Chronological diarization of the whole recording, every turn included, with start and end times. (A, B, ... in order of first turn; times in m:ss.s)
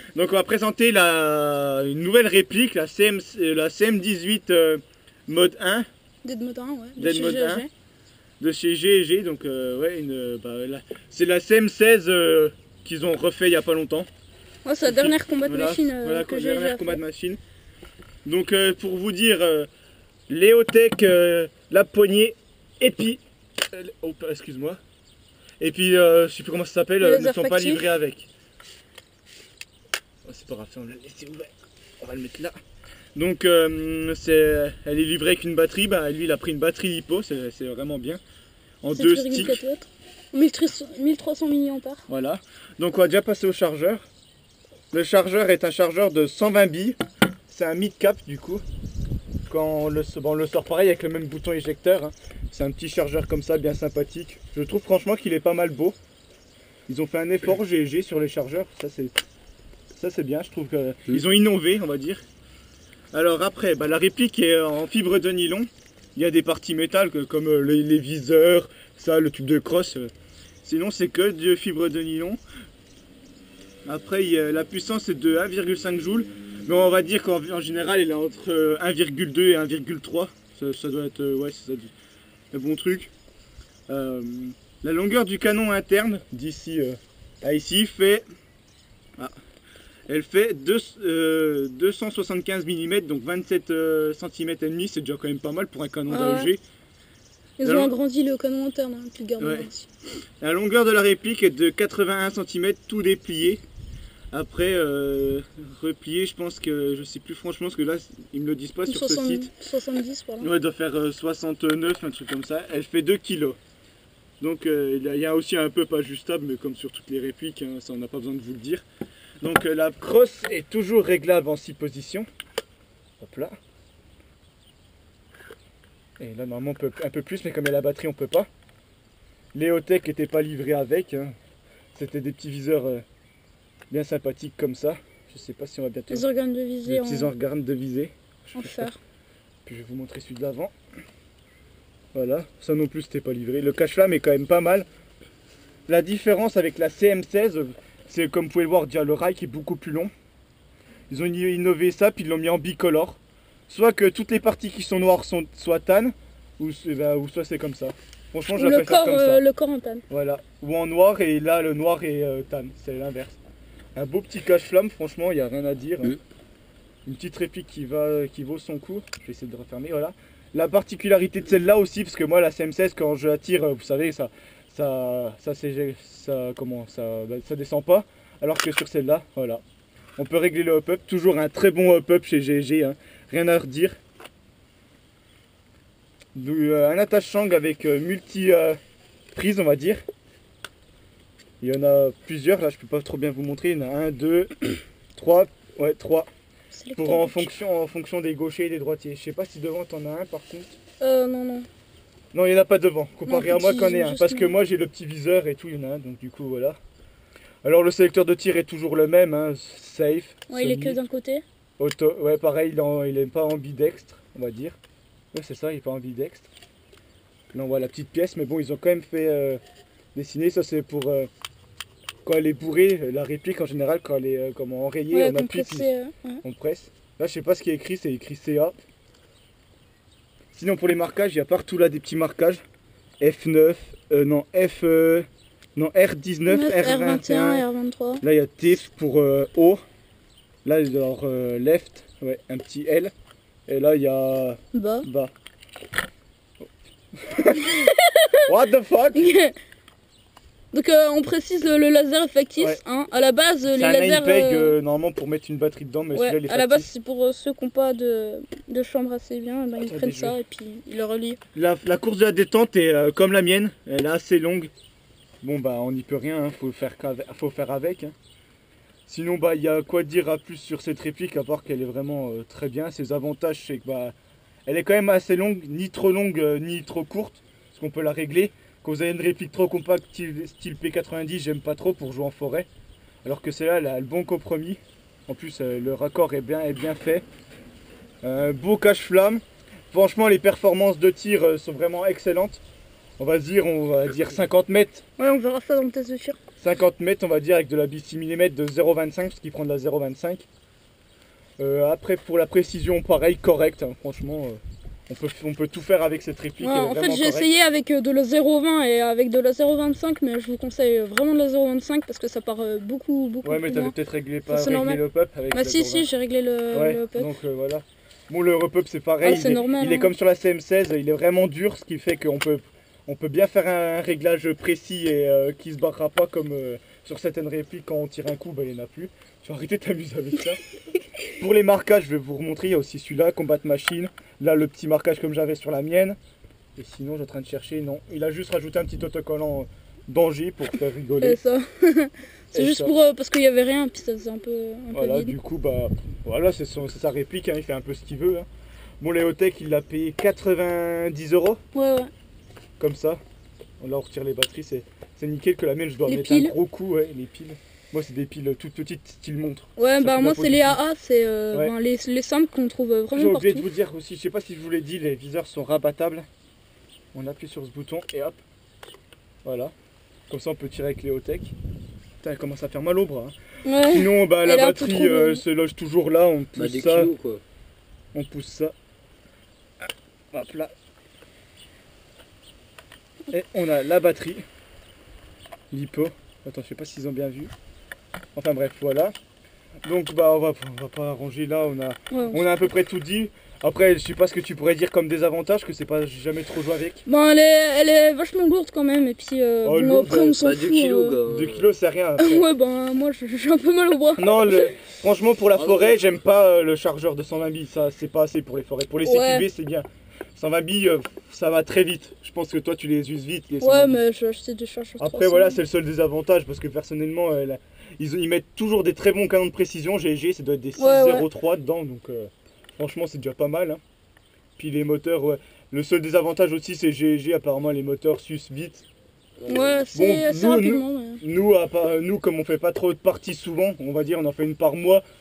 0:00.2-0:05.9 A
0:06.2-0:07.7 B
0:07.0-0:07.6 A
0:08.4-0:14.1 A
0:14.6-0:17.0 B
0:14.8-0:17.4 A
0:18.2-0:19.7 A
0:20.3-0:24.8 A
0:25.6-0:28.3 A
0:27.0-0:27.9 B
0:30.2-0:32.6 A
0:33.1-0:38.2 A
0:38.8-0:39.6 A
0:38.9-0:42.0 B
0:42.1-0:44.1 A
0:44.9-0:47.0 A
0:47.5-0:48.6 A
0:49.5-0:56.0 A
0:56.9-0:59.1 A
1:00.0-1:02.2 A
1:03.1-1:10.1 A
1:10.6-1:12.4 A
1:13.8-1:21.9 A
1:22.5-1:23.1 A
1:23.9-1:28.2 A
1:30.1-1:36.6 A
1:36.1-1:36.5 B
1:37.6-1:39.9 B
1:37.6-1:37.9 A
1:39.4-1:39.7 A
1:40.4-1:43.6 A
1:44.3-1:49.5 A
1:48.9-1:50.5 B
1:50.4-1:53.6 A
1:54.4-1:58.8 A
1:59.4-2:02.3 A
2:03.2-2:03.6 A
2:06.2-2:08.5 A
2:09.5-2:11.3 A
2:11.9-2:13.0 A
2:13.9-2:16.2 A
2:16.1-2:17.3 B
2:16.8-2:18.9 A
2:18.6-2:19.0 B
2:19.6-2:20.7 A
2:22.1-2:24.8 A
2:25.9-2:30.1 A
2:31.1-2:39.4 A
2:38.5-2:40.0 B
2:40.1-2:43.4 A
2:43.9-2:46.2 A
2:47.0-2:59.6 A
3:00.2-3:04.0 A
3:06.3-3:08.8 A
3:09.3-3:10.0 A
3:11.6-3:16.3 A
3:16.7-3:17.5 B
3:17.0-3:20.8 A
3:21.0-3:21.7 B
3:22.3-3:26.8 A
3:23.3-3:24.5 B
3:27.6-3:31.0 A
3:30.5-3:31.4 B
3:31.8-3:34.8 A
3:35.3-3:36.5 A
3:37.5-3:39.6 A
3:40.1-3:41.3 A
3:42.2-3:45.9 A
3:45.1-3:46.4 B
3:46.4-3:48.8 A
3:50.5-3:52.6 A
3:53.2-3:57.6 A
3:56.5-3:58.2 B
3:58.2-3:59.8 A
4:00.6-4:03.1 A
4:03.7-4:05.3 A
4:04.7-4:05.0 B
4:07.2-4:07.8 A
4:07.6-4:08.3 B
4:08.4-4:09.3 A
4:09.1-4:09.5 B
4:10.7-4:14.7 B
4:13.6-4:16.9 A
4:16.1-4:21.4 B
4:19.8-4:20.4 A
4:21.5-4:24.7 A
4:25.4-4:28.1 A
4:29.1-4:34.1 A
4:34.6-4:42.7 A
4:43.2-4:47.2 A
4:48.2-4:52.6 A
4:53.2-4:55.0 A
4:55.2-4:56.4 B
4:56.6-5:00.5 A
5:01.6-5:07.5 A
5:06.6-5:13.9 B
5:13.4-5:16.1 A
5:14.5-5:17.3 B
5:16.7-5:30.6 A
5:19.2-5:20.1 B
5:31.4-5:36.2 A
5:36.8-5:41.4 A
5:41.2-5:45.4 B
5:42.5-5:42.9 A
5:44.9-5:48.5 A
5:49.0-5:51.6 A
5:51.7-5:52.1 B
5:52.8-5:53.2 A
5:53.8-6:00.8 A
5:56.1-5:56.5 B
5:59.8-6:03.7 B
6:03.1-6:06.3 A
6:07.1-6:08.4 A
6:09.4-6:09.7 A
6:10.3-6:11.5 A
6:12.2-6:13.3 A
6:13.7-6:15.4 B
6:13.8-6:17.1 A
6:16.6-6:17.4 C
6:18.1-6:18.7 A
6:20.3-6:20.7 A
6:23.3-6:24.4 A
6:25.7-6:27.5 A
6:28.3-6:29.1 A
6:29.8-6:37.0 A
6:32.1-6:32.4 B
6:37.0-6:41.2 B
6:39.6-6:40.5 A
6:40.4-6:41.7 C
6:41.2-6:42.5 A
6:42.2-6:44.7 B
6:44.2-6:54.0 A
6:45.6-6:45.9 C
6:49.0-6:49.5 B
6:53.6-6:55.6 B
6:55.0-7:03.8 A
7:00.8-7:01.3 B
7:04.6-7:08.8 A
7:09.4-7:09.9 C
7:09.5-7:11.2 B
7:09.9-7:15.0 A